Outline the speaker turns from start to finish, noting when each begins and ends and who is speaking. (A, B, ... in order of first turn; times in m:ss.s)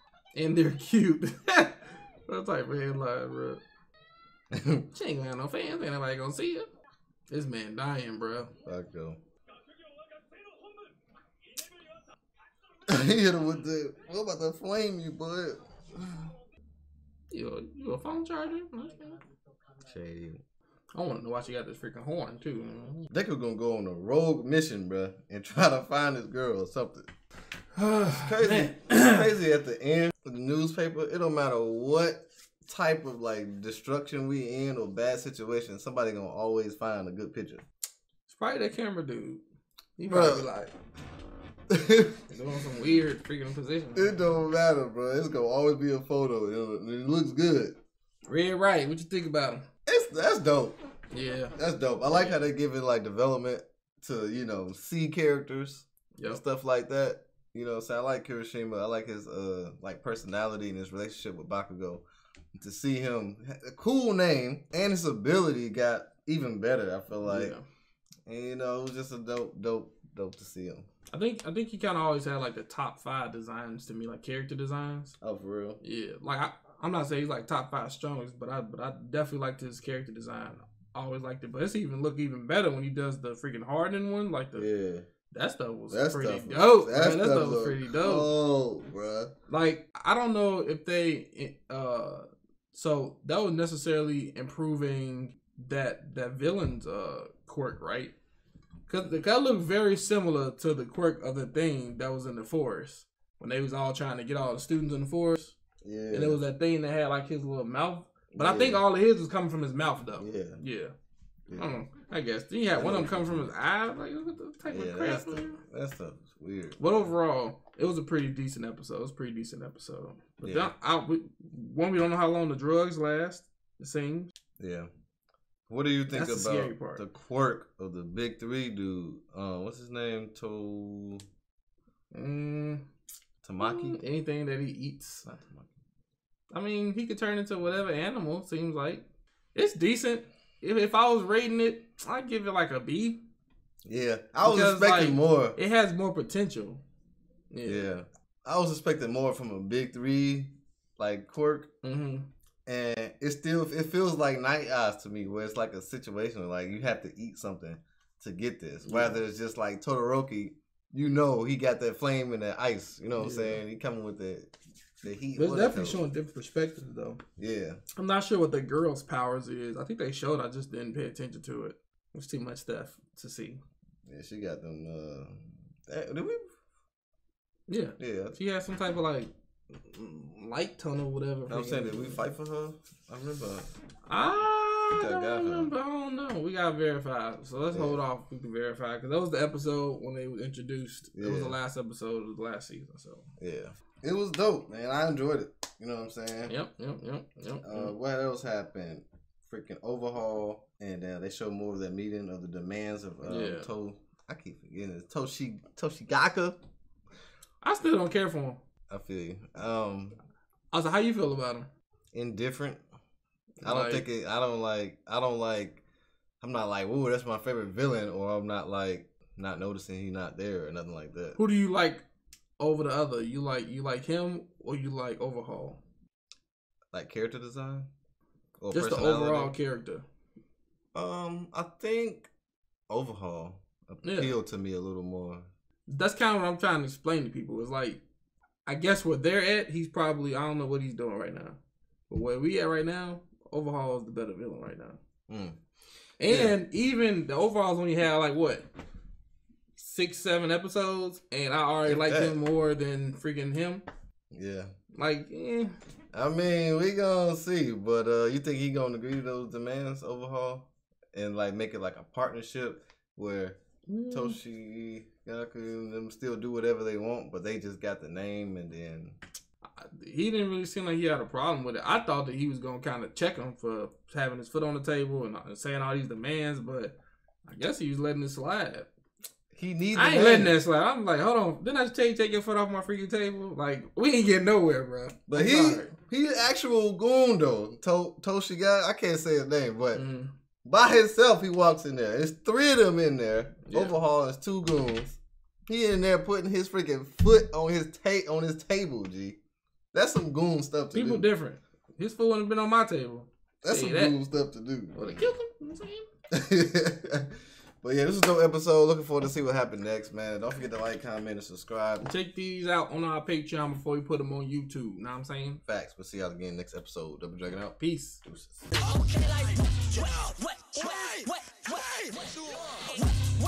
0:00.4-0:03.6 A
0:04.5-0:04.9 B
0:04.9-0:06.7 A
0:07.3-0:08.5 A
0:08.6-0:09.2 B
0:12.9-0:16.3 B
0:17.3-0:19.2 A
0:19.8-0:20.4 B
0:21.0-0:23.1 A
0:23.1-0:27.1 B
0:27.8-0:29.3 A
0:28.1-0:37.6 B
0:38.3-0:39.4 A
0:40.0-0:40.7 A
0:40.1-0:40.5 B
0:41.7-0:42.2 B
0:42.3-0:44.2 A
0:44.0-0:47.8 B
0:48.3-0:49.6 A
0:49.9-0:50.8 B
0:51.1-0:51.6 A
0:51.6-1:02.0 B
0:56.2-0:56.4 A
1:02.6-1:07.6 B
1:07.2-1:07.6 A
1:08.2-1:10.9 B
1:11.1-1:15.2 A
1:15.2-1:15.8 B
1:15.8-1:24.7 A
1:24.6-1:25.0 B
1:25.3-1:28.3 A
1:25.9-1:29.3 B
1:29.5-1:38.1 A
1:38.9-1:45.6 A
1:45.8-1:46.4 B
1:46.1-1:50.9 A
1:48.3-1:48.8 B
1:50.2-1:50.6 B
1:51.5-1:51.8 B
1:51.5-1:55.6 A
1:52.7-1:53.5 B
1:54.7-1:57.1 B
1:56.8-2:04.3 A
2:00.4-2:00.7 B
2:04.6-2:04.9 B
2:05.7-2:11.2 B
2:06.1-2:07.0 A
2:12.1-2:12.8 A
2:13.4-2:14.0 B
2:13.6-2:15.2 A
2:15.2-2:15.8 B
2:16.5-2:23.2 A
2:23.8-2:25.6 B
2:24.4-2:26.8 A
2:27.5-2:27.9 A
2:27.6-2:31.7 B
2:31.8-2:32.3 A
2:32.6-2:44.5 B
2:38.8-2:39.2 A
2:43.2-2:43.6 A
2:45.0-2:46.0 B
2:45.4-2:47.2 A
2:47.4-2:47.8 B
2:48.0-2:53.6 A
2:54.1-2:56.6 B
2:57.7-3:02.2 A
2:58.0-2:58.4 B
3:01.5-3:03.7 B
3:04.1-3:13.2 A
3:04.9-3:05.7 B
3:07.7-3:08.0 B
3:11.2-3:11.6 B
3:13.4-3:16.5 B
3:16.5-3:17.9 A
3:17.6-3:26.6 B
3:23.2-3:23.7 A
3:27.6-3:28.6 A
3:28.9-3:30.2 B
3:30.7-3:31.7 A
3:32.1-3:32.8 B
3:33.6-3:34.1 A
3:33.6-3:35.8 B
3:36.4-3:41.4 B
3:41.4-3:42.0 A
3:42.6-3:45.8 A
3:46.9-3:47.9 B
3:48.6-3:49.5 B
3:48.7-3:50.0 A
3:50.9-3:52.3 B
3:52.9-3:55.5 B
3:54.0-3:54.4 A
3:55.9-3:58.0 A
3:58.6-4:01.6 A
4:02.1-4:05.0 A
4:05.3-4:05.6 B
4:06.2-4:08.6 A
4:06.3-4:06.6 B
4:09.8-4:13.8 A
4:11.8-4:12.4 B
4:14.3-4:14.7 B
4:14.9-4:15.8 A
4:16.1-4:29.2 B
4:23.9-4:24.4 A
4:29.8-4:38.9 A
4:39.5-4:40.6 B
4:39.9-4:46.0 A
4:45.3-4:50.0 B
4:49.9-4:50.3 A
4:50.6-4:59.4 B
4:53.7-4:54.0 A
4:59.9-5:01.3 B
5:00.9-5:04.2 A
5:03.6-5:05.3 B
5:04.9-5:06.1 A
5:06.3-5:12.1 B
5:12.0-5:15.6 A
5:15.6-5:18.6 B
5:17.8-5:18.2 A
5:19.1-5:19.5 C
5:20.0-5:21.8 C